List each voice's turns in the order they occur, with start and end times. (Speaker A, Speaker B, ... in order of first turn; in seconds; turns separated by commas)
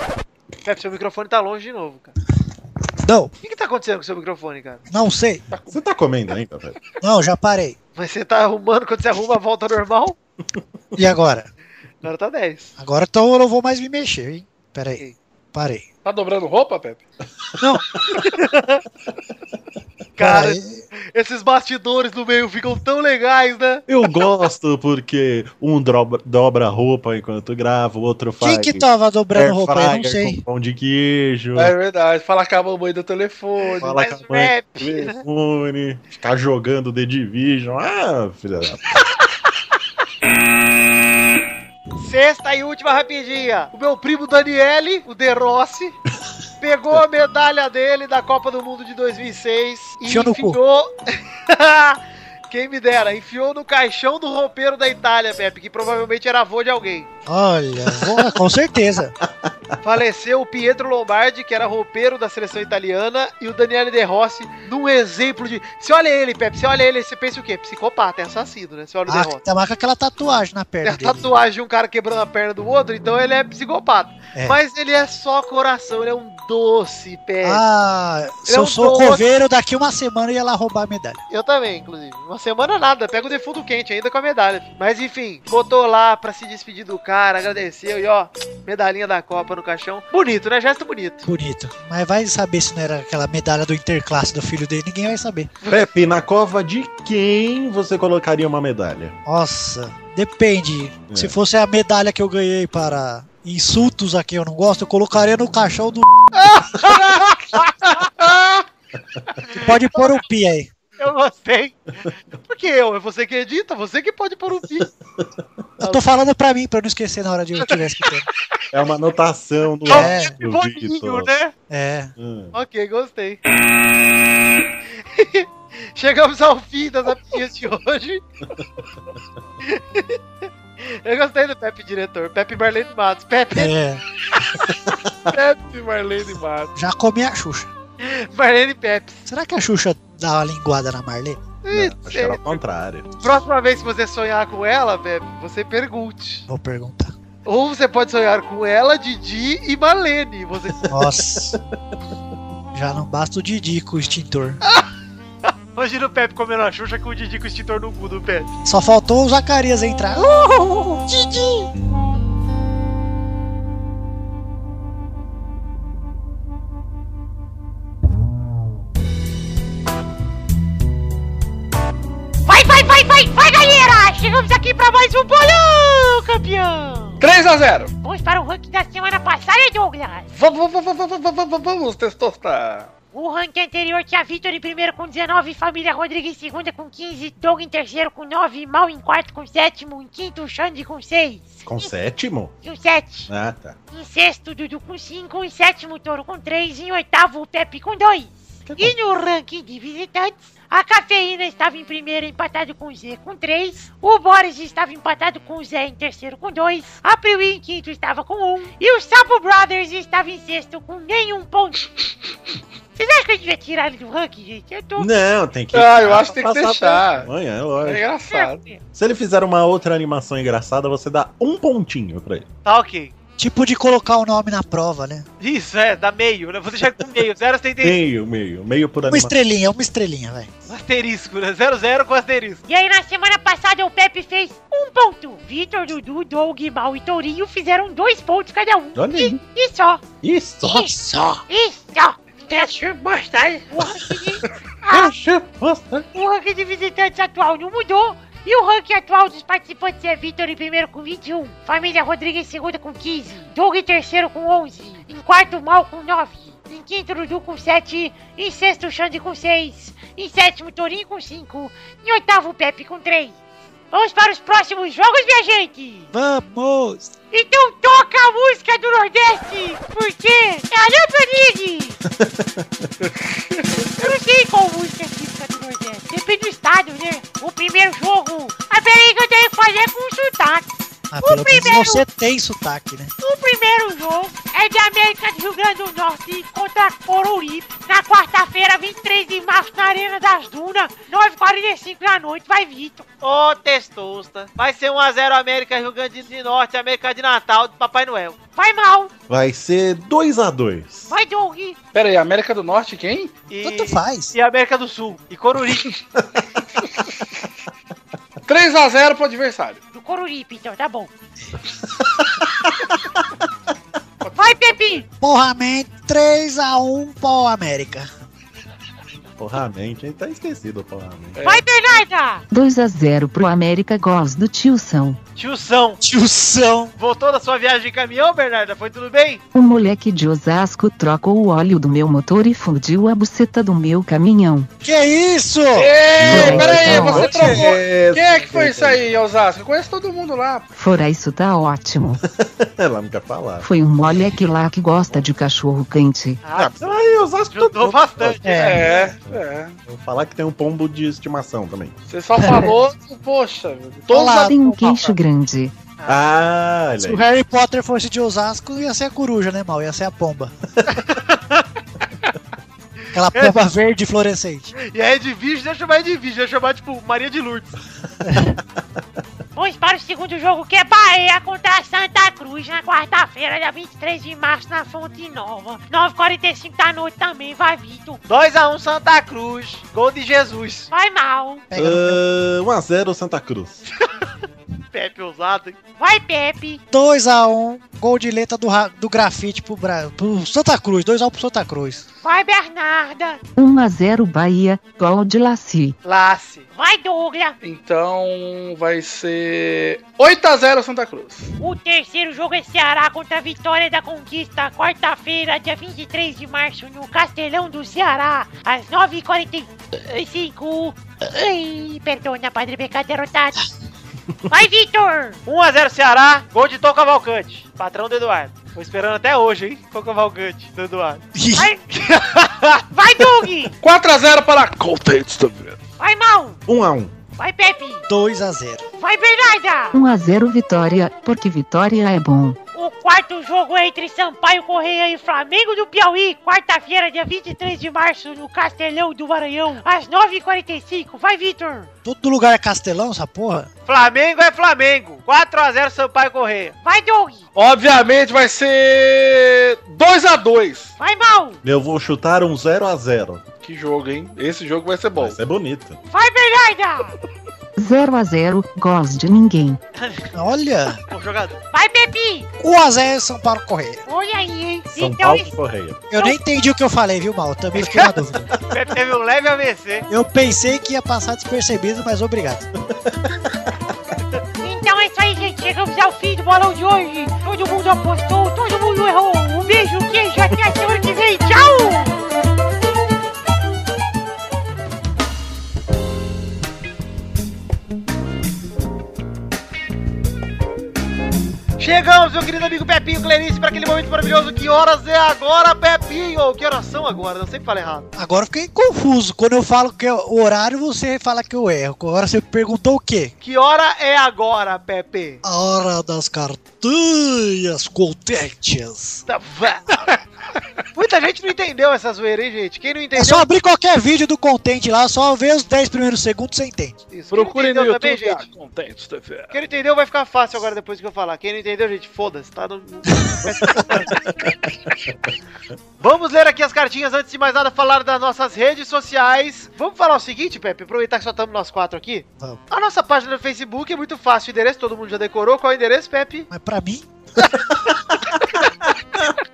Speaker A: 0.6-2.1, Speaker B: 3.0-3.3, Speaker A: 3.4-4.8, Speaker B: 4.9-5.4, Speaker C: 5.5-5.8, Speaker D: 5.7-6.8, Speaker B: 7.0-7.8, Speaker A: 8.0-10.2, Speaker B: 10.9-11.5, Speaker A: 12.0-12.7, Speaker B: 12.8-15.8, Speaker C: 16.0-17.0, Speaker B: 17.6-17.8, Speaker A: 18.3-18.8, Speaker A: 20.1-23.8, Speaker B: 20.2-20.8, Speaker D: 23.9-31.7, Speaker B: 28.4-30.4, Speaker C: 31.5-34.0, Speaker D: 33.8-39.0, Speaker A: 33.9-35.2, Speaker A: 42.0-46.0, Speaker A: 46.6-50.9, Speaker B: 50.0-50.6, Speaker A: 51.5-57.1, Speaker B: 57.2-59.1, Speaker A: 59.8-69.4, Speaker B: 69.1-71.3, Speaker A: 70.8-77.6, Speaker B: 77.4-81.2, Speaker A: 78.5-79.2, Speaker A: 81.3-91.3, Speaker B: 91.2-95.5, Speaker D: 95.6-99.2, Speaker B: 99.2-106.0, Speaker A: 106.3-107.4, Speaker C: 108.0-108.6, Speaker B: 109.6-110.7, Speaker A: 111.0-111.8, Speaker A: 112.3-114.9, Speaker B: 115.8-118.3, Speaker D: 118.7-121.3, Speaker B: 119.8-120.3, Speaker A: 119.9-121.5, Speaker B: 121.7-122.1, Speaker D: 122.2-122.5, Speaker A: 122.5-123.4, Speaker A: 125.0-128.2, Speaker A: 129.6-130.2, Speaker A: 130.8-133.7, Speaker B: 133.5-134.0, Speaker D: 134.8-135.3, Speaker C: 135.3-136.7, Speaker B: 136.7-137.7, Speaker A: 138.0-139.2, Speaker B: 139.3-141.5, Speaker A: 141.6-142.6, Speaker D: 141.7-143.1, Speaker A: 143.2-146.4, Speaker B: 146.5-147.1, Speaker A: 147.4-150.9, Speaker B: 150.9-151.6, Speaker B: 152.7-154.6, Speaker A: 155.4-158.5, Speaker B: 158.6-160.2, Speaker E: 160.3-161.5, Speaker E: 172.4-177.2, Speaker C: 177.2-177.9, Speaker E: 178.0-180.3, Speaker C: 180.3-182.9, Speaker E: 183.1-191.9, Speaker D: 191.7-192.6, Speaker E: 192.6-193.3, Speaker D: 193.3-193.8, Speaker E: 193.9-211.8, Speaker D: 198.7-198.9, Speaker E: 212.9-215.1, Speaker D: 214.9-218.1, Speaker C: 215.7-217.3, Speaker C: 217.8-218.6, Speaker E: 218.2-218.8, Speaker D: 218.9-222.5, Speaker A: 222.6-223.1, Speaker B: 223.4-225.3, Speaker A: 225.4-228.0, Speaker D: 227.8-229.3, Speaker B: 229.1-230.5, Speaker A: 230.7-232.6, Speaker E: 232.7-240.1, Speaker D: 238.9-239.4, Speaker D: 240.2-240.9, Speaker E: 240.6-245.1, Speaker D: 244.9-246.1, Speaker E: 246.1-263.4, Speaker E: 263.9-266.1, Speaker B: 266.1-267.1, Speaker E: 267.3-272.0, Speaker D: 272.1-272.6, Speaker E: 274.0-282.0, Speaker B: 281.1-283.1, Speaker E: 283.2-293.1, Speaker A: 293.2-298.4, Speaker E: 298.6-299.1, Speaker D: 299.3-301.1, Speaker E: 301.1-301.8, Speaker C: 301.9-303.3, Speaker A: 303.5-305.9, Speaker B: 303.6-304.3, Speaker C: 308.5-309.8, Speaker E: 309.9-311.1, Speaker C: 314.2-314.8, Speaker E: 314.4-315.0, Speaker B: 315.2-318.1, Speaker D: 319.4-321.4, Speaker C: 321.3-321.7, Speaker E: 321.4-322.4, Speaker F: 322.5-325.2, Speaker A: 325.4-326.0, Speaker B: 326.0-326.9, Speaker A: 327.0-329.4, Speaker F: 329.5-334.7, Speaker B: 334.8-337.7, Speaker C: 335.7-340.6, Speaker D: 336.2-339.1, Speaker F: 336.3-337.4, Speaker F: 340.7-342.2, Speaker D: 342.3-343.7, Speaker F: 343.6-346.4, Speaker A: 346.4-349.1, Speaker D: 346.5-348.6, Speaker B: 348.4-349.0, Speaker C: 348.6-349.8, Speaker D: 349.3-352.0, Speaker C: 352.1-354.9, Speaker B: 352.4-352.8, Speaker B: 354.1-355.1, Speaker F: 354.4-355.7, Speaker A: 356.0-356.2, Speaker D: 356.1-357.2, Speaker B: 357.0-360.5, Speaker A: 360.9-361.6, Speaker B: 363.1-364.7, Speaker A: 363.3-363.6, Speaker A: 364.8-367.7, Speaker B: 368.2-368.6, Speaker E: 369.5-378.2, Speaker A: 378.3-380.9, Speaker E: 380.9-381.7, Speaker B: 381.7-382.2, Speaker D: 381.8-383.8, Speaker A: 384.9-385.8, Speaker E: 386.0-386.8, Speaker B: 386.9-392.0, Speaker E: 392.2-393.4, Speaker F: 393.6-395.9, Speaker A: 396.0-396.7, Speaker E: 396.7-397.6, Speaker C: 397.6-401.5, Speaker E: 401.6-413.7, Speaker E: 414.5-415.4, Speaker A: 415.4-421.2, Speaker B: 421.3-421.7, Speaker E: 421.6-421.8, Speaker A: 421.9-422.8, Speaker E: 422.9-423.7, Speaker C: 423.8-425.8, Speaker E: 426.0-426.6, Speaker D: 426.7-427.2, Speaker E: 427.4-428.0, Speaker B: 428.1-428.8, Speaker E: 429.0-429.9, Speaker F: 429.9-432.6, Speaker E: 432.7-441.9, Speaker B: 442.0-443.7, Speaker A: 443.9-446.8, Speaker E: 446.8-447.4, Speaker C: 447.6-450.9, Speaker E: 451.0-451.6, Speaker D: 451.6-453.4, Speaker C: 453.6-455.4, Speaker D: 455.2-456.0, Speaker E: 456.1-457.1, Speaker F: 457.8-459.8, Speaker A: 460.0-460.3, Speaker B: 460.3-461.0, Speaker A: 461.1-461.6, Speaker E: 461.7-462.5, Speaker B: 462.6-464.0, Speaker E: 464.1-465.5, Speaker D: 464.9-466.1, Speaker B: 466.1-468.6, Speaker A: 467.8-468.1, Speaker A: 468.7-470.1, Speaker B: 470.1-472.7, Speaker E: 474.6-482.2, Speaker A: 491.8-498.1, Speaker B: 498.1-503.3, Speaker A: 503.4-505.4, Speaker B: 505.4-509.2, Speaker A: 509.3-510.1, Speaker A: 510.9-513.5, Speaker B: 513.1-517.0, Speaker A: 517.1-518.4, Speaker C: 517.3-519.6, Speaker A: 519.5-524.1, Speaker B: 523.1-523.9, Speaker D: 523.6-525.1, Speaker A: 526.0-536.5, Speaker B: 536.5-537.1